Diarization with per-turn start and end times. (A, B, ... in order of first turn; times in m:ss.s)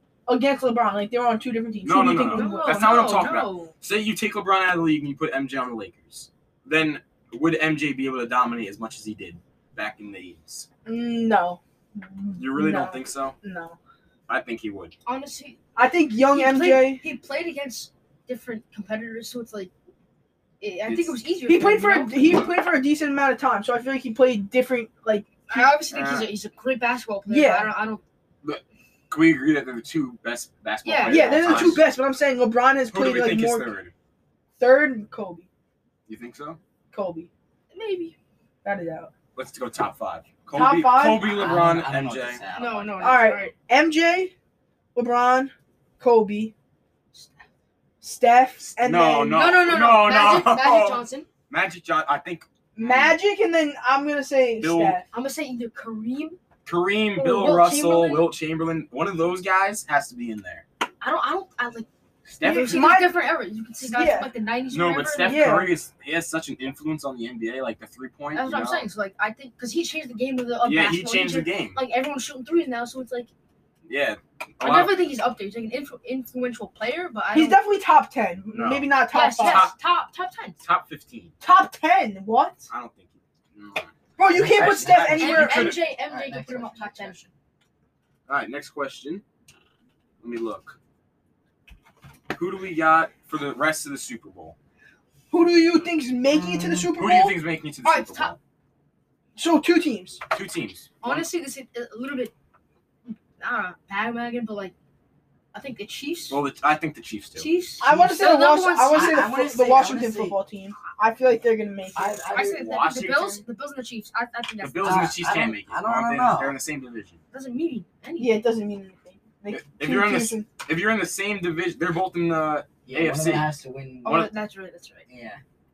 0:00.3-0:03.2 A
0:01.8-0:10.7 B
0:02.3-0:03.7 C
0:10.8-0:13.8 A
0:12.4-0:13.4 B
0:14.3-0:14.9 B
0:15.0-0:15.6 C
0:15.8-0:17.0 A
0:16.3-0:19.7 C
0:20.6-0:22.4 C
0:20.9-0:21.2 B
0:21.5-0:25.8 A
0:25.5-0:28.0 C
0:25.9-0:26.3 B
0:27.3-0:27.7 A
0:28.4-0:31.9 B
0:30.8-0:31.8 C
0:31.1-0:33.7 A
0:32.9-0:33.9 B
0:34.6-0:35.5 A
0:36.1-0:36.6 B
0:36.9-0:37.3 A
0:37.7-0:38.2 C
0:38.6-0:39.1 A
0:39.4-0:42.4 B
0:40.5-0:41.4 A
0:41.2-0:43.4 D
0:42.5-0:43.5 C
0:43.0-0:44.3 A
0:45.0-0:46.5 A
0:47.1-0:47.4 C
0:48.0-0:49.5 A
0:48.6-0:53.2 B
0:49.3-0:51.3 C
0:52.8-0:55.1 A
0:54.6-0:55.0 B
0:55.1-0:56.4 C
0:56.7-1:00.6 B
0:57.2-0:57.6 A
0:57.2-0:58.3 C
1:01.0-1:01.9 C
1:02.3-1:03.0 B
1:02.4-1:05.6 C
1:02.4-1:03.2 A
1:03.9-1:04.3 A
1:04.7-1:08.9 B
1:05.2-1:05.8 A
1:08.3-1:13.3 C
1:10.6-1:11.8 B
1:13.9-1:15.0 B
1:14.6-1:17.6 C
1:17.3-1:19.7 A
1:18.5-1:19.8 B
1:19.1-1:20.6 C
1:20.6-1:21.3 B
1:21.4-1:22.7 A
1:22.7-1:23.9 B
1:24.2-1:25.8 A
1:24.3-1:27.3 D
1:24.5-1:25.8 B
1:25.1-1:27.2 C
1:28.3-1:29.2 B
1:30.2-1:30.8 B
1:32.3-1:34.6 B
1:35.3-1:37.4 A
1:36.3-1:36.9 D
1:37.0-1:38.4 B
1:37.8-1:38.3 C
1:39.4-1:40.2 A
1:40.3-1:41.3 B
1:41.0-1:42.3 C
1:43.1-1:44.7 C
1:45.5-1:46.4 C
1:46.3-1:47.5 B
1:47.4-1:49.2 C
1:47.8-1:52.2 A
1:47.8-1:48.2 D
1:48.9-1:50.4 D
1:51.9-1:52.7 D
1:52.3-1:55.2 C
1:52.4-1:53.4 B
1:54.6-1:57.2 B
1:54.8-1:56.6 D
1:57.3-1:58.5 C
1:58.2-2:00.5 A
1:59.5-2:03.5 B
2:02.8-2:04.3 D
2:04.0-2:05.1 C
2:05.1-2:05.4 D